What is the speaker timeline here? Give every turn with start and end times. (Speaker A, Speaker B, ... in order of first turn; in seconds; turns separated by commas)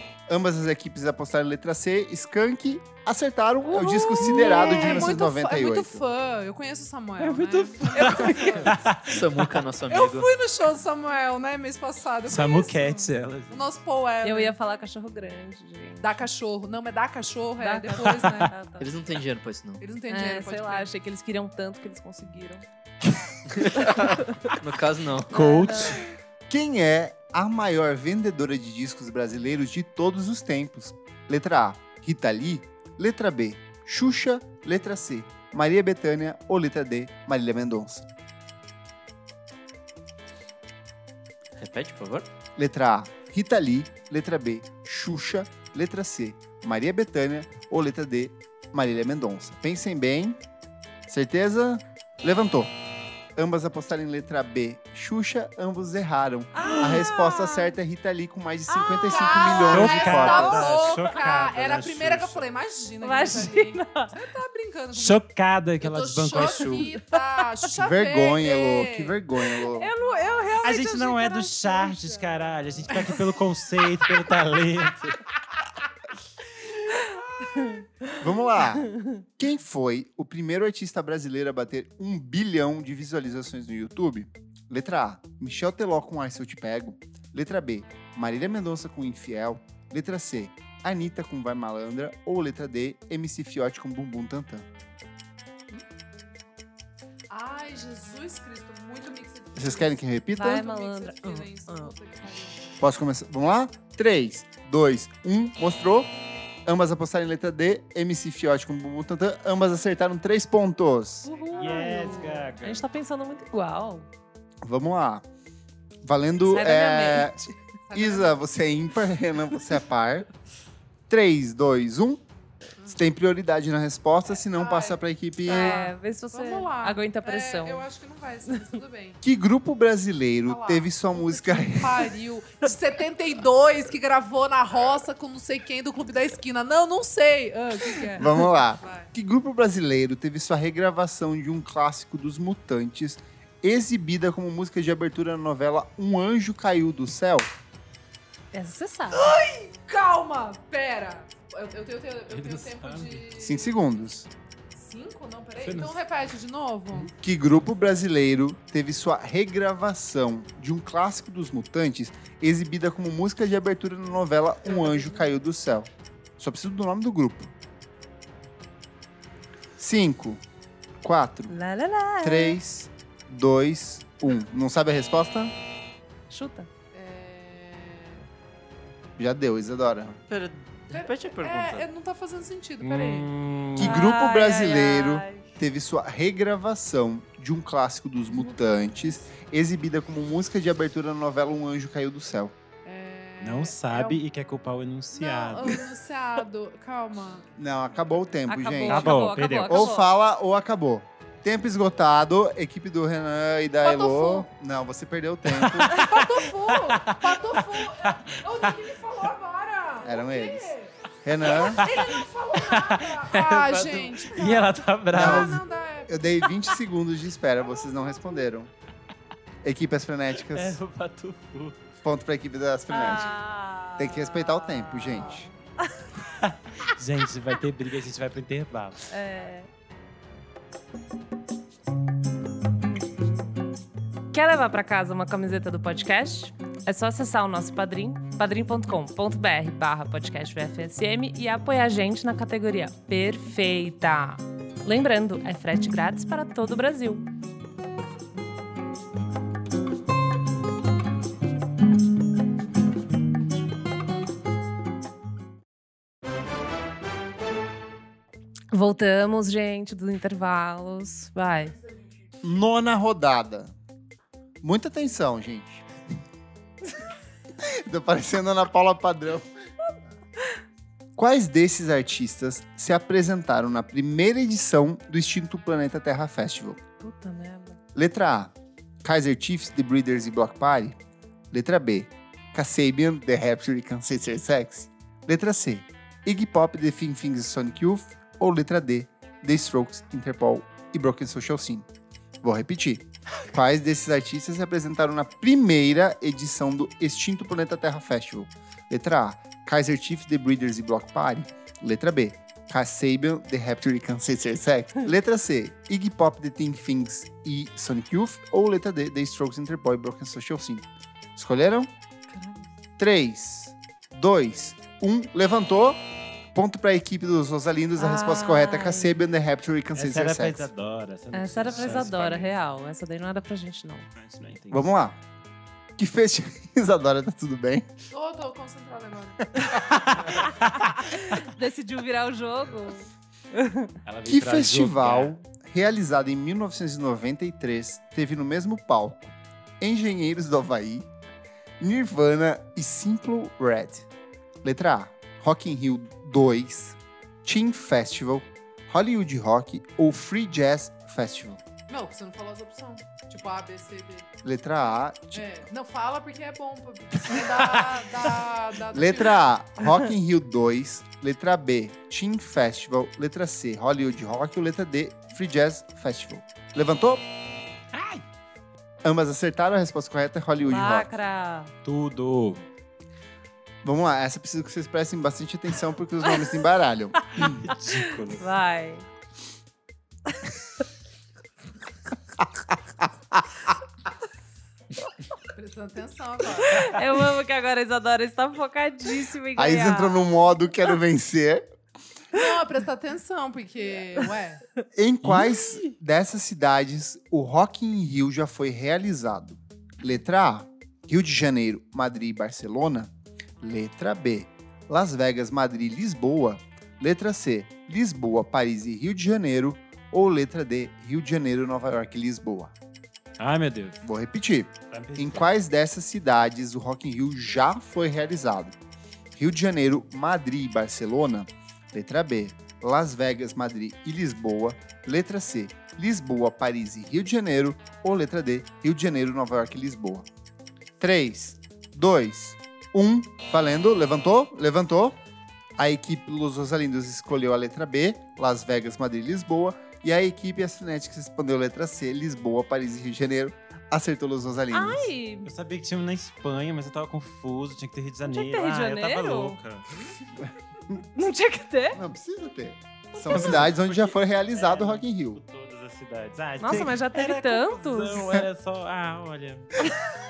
Speaker A: 0.3-6.0, Speaker B: 3.7-5.0, Speaker C: 3.9-8.8, Speaker D: 7.2-9.3, Speaker B: 7.9-8.7, Speaker E: 9.0-10.3, Speaker C: 9.9-14.6, Speaker D: 12.2-13.7, Speaker B: 14.2-16.1, Speaker C: 16.0-18.5, Speaker B: 17.6-18.9, Speaker E: 18.8-19.8, Speaker C: 19.8-20.9, Speaker B: 20.1-22.6, Speaker E: 23.7-25.8, Speaker B: 23.9-24.2, Speaker D: 25.3-26.0, Speaker B: 25.3-26.1, Speaker A: 26.5-38.1, Speaker E: 41.6-42.2, Speaker A: 42.6-50.4, Speaker A: 51.1-52.8, Speaker A: 53.4-60.7, Speaker B: 56.5-57.7, Speaker B: 58.7-60.9, Speaker C: 59.0-65.2, Speaker D: 59.7-62.4, Speaker B: 63.0-64.1, Speaker D: 64.9-66.9, Speaker C: 65.8-73.3, Speaker B: 66.3-67.2, Speaker A: 67.7-69.9, Speaker B: 69.7-72.0, Speaker D: 70.6-75.2, Speaker A: 78.2-94.7, Speaker C: 97.3-102.8, Speaker A: 99.5-100.7, Speaker B: 100.3-101.9, Speaker A: 102.8-106.1, Speaker A: 106.6-111.3, Speaker B: 111.2-114.1, Speaker C: 111.3-112.5, Speaker D: 111.5-112.8, Speaker A: 114.6-115.2, Speaker A: 116.0-120.3, Speaker B: 116.5-117.3, Speaker C: 117.9-118.4, Speaker A: 121.1-122.2, Speaker A: 122.9-125.9, Speaker C: 124.5-129.2, Speaker B: 125.5-127.8, Speaker A: 129.2-132.1, Speaker C: 130.4-139.1, Speaker A: 138.2-147.5, Speaker B: 148.5-149.3, Speaker C: 149.1-153.8, Speaker D: 152.3-153.2, Speaker A: 153.3-154.3, Speaker C: 154.7-157.1, Speaker D: 155.6-156.0, Speaker A: 157.1-167.5, Speaker C: 164.7-165.2, Speaker A: 169.8-170.4, Speaker A: 171.0-171.5, Speaker B: 171.5-172.6, Speaker A: 172.2-175.5, Speaker B: 176.3-176.7, Speaker C: 176.9-178.2, Speaker A: 179.2-180.2, Speaker E: 180.3-181.9, Speaker C: 180.9-183.3, Speaker D: 182.8-184.0, Speaker A: 183.8-192.5, Speaker B: 183.8-185.4, Speaker C: 192.8-194.2, Speaker D: 193.4-195.8, Speaker C: 195.1-197.5, Speaker A: 197.6-206.1, Speaker B: 198.5-200.1, Speaker D: 198.9-199.9, Speaker C: 203.8-204.5, Speaker D: 205.6-208.7, Speaker C: 205.8-216.5, Speaker A: 210.0-210.7, Speaker A: 211.2-211.9, Speaker D: 211.5-215.6, Speaker A: 215.1-218.7, Speaker A: 219.6-220.8, Speaker D: 220.5-221.8, Speaker A: 222.0-223.3, Speaker B: 222.9-225.5, Speaker A: 224.0-225.5, Speaker D: 226.2-229.1, Speaker B: 229.1-229.7, Speaker B: 234.3-247.3, Speaker B: 258.7-261.8, Speaker A: 262.4-263.7, Speaker A: 264.6-265.9, Speaker A: 267.6-269.5, Speaker A: 271.1-276.8, Speaker B: 277.0-277.8, Speaker A: 277.9-281.0, Speaker A: 281.5-291.9, Speaker A: 292.4-311.9, Speaker B: 312.3-312.7, Speaker A: 313.0-320.7, Speaker B: 318.0-319.1, Speaker D: 319.9-322.5, Speaker B: 321.3-324.1, Speaker D: 324.2-324.9, Speaker A: 324.7-325.2, Speaker A: 326.0-327.9, Speaker C: 328.1-329.4, Speaker A: 329.5-330.3, Speaker B: 330.6-333.9, Speaker D: 334.0-335.4, Speaker A: 334.3-341.1, Speaker A: 341.8-344.1, Speaker A: 344.6-351.6, Speaker C: 351.9-354.3, Speaker A: 354.4-355.4, Speaker C: 355.3-359.4, Speaker D: 357.4-357.9, Speaker A: 358.9-367.2, Speaker D: 367.9-368.2, Speaker A: 369.0-371.1, Speaker B: 370.6-371.7, Speaker D: 371.8-372.6, Speaker A: 373.8-377.6, Speaker D: 377.3-378.4, Speaker B: 377.4-379.1, Speaker C: 385.5-386.9, Speaker B: 386.7-390.3, Speaker A: 389.6-391.7, Speaker C: 392.3-394.6, Speaker A: 394.9-412.7, Speaker D: 395.2-395.6, Speaker D: 413.4-414.0, Speaker A: 414.0-418.8, Speaker D: 414.9-415.4, Speaker A: 419.4-430.3, Speaker A: 431.0-435.2, Speaker A: 435.8-445.1, Speaker B: 444.7-445.5, Speaker D: 445.4-449.8, Speaker B: 448.2-449.6, Speaker B: 451.1-452.0, Speaker A: 451.9-455.4, Speaker D: 453.3-459.8, Speaker B: 456.6-458.4